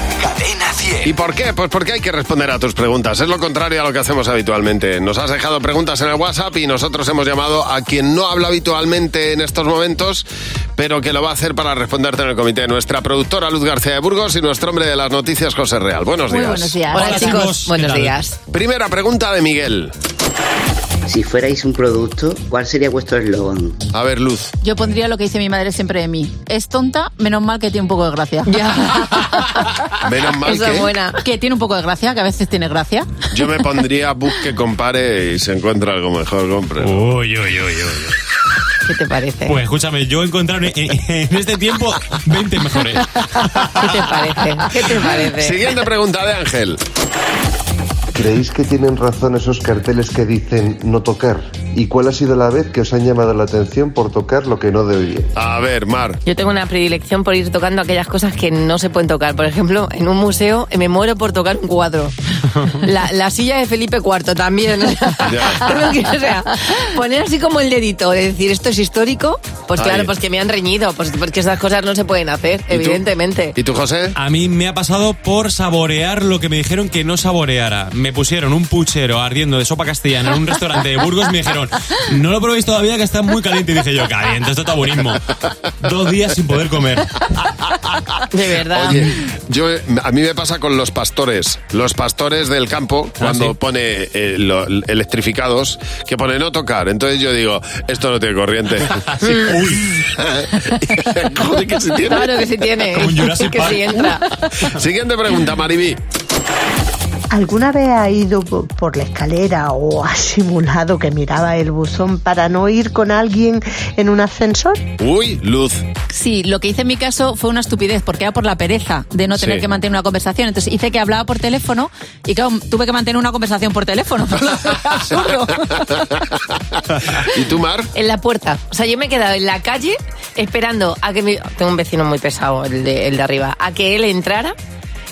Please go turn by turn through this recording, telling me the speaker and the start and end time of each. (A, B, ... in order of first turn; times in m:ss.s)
0:01.0-0:10.2 A
0:10.8-0:16.8 A
0:16.3-0:17.5 B
0:16.9-0:18.4 C
0:17.0-0:18.2 D
0:18.5-0:19.9 A
0:21.1-0:23.8 E
0:23.9-0:24.5 A
0:24.6-0:28.6 B
0:28.4-0:29.7 C
0:29.9-0:30.9 A
0:30.4-0:31.2 C
0:31.2-0:33.4 B
0:33.3-0:37.0 A
0:36.8-0:38.2 D
0:38.8-0:39.6 C
0:39.4-0:44.0 D
0:43.5-0:45.7 C
0:45.4-0:46.8 A
0:48.1-0:55.3 F
0:55.3-0:56.2 A
0:56.2-1:13.6 C
1:05.2-1:05.7 A
1:09.8-1:10.1 A
1:12.7-1:13.0 A
1:13.6-1:14.2 A
1:14.1-1:27.2 D
1:28.3-1:29.2 C
1:28.7-1:42.4 A
1:33.2-1:33.5 D
1:39.0-1:39.9 D
1:42.1-1:44.5 C
1:42.9-1:44.1 D
1:44.6-1:46.0 A
1:47.3-1:54.8 G
1:55.0-1:55.8 A
1:56.1-2:05.9 B
1:59.3-1:59.6 A
2:05.8-2:07.9 A
2:07.9-2:14.5 C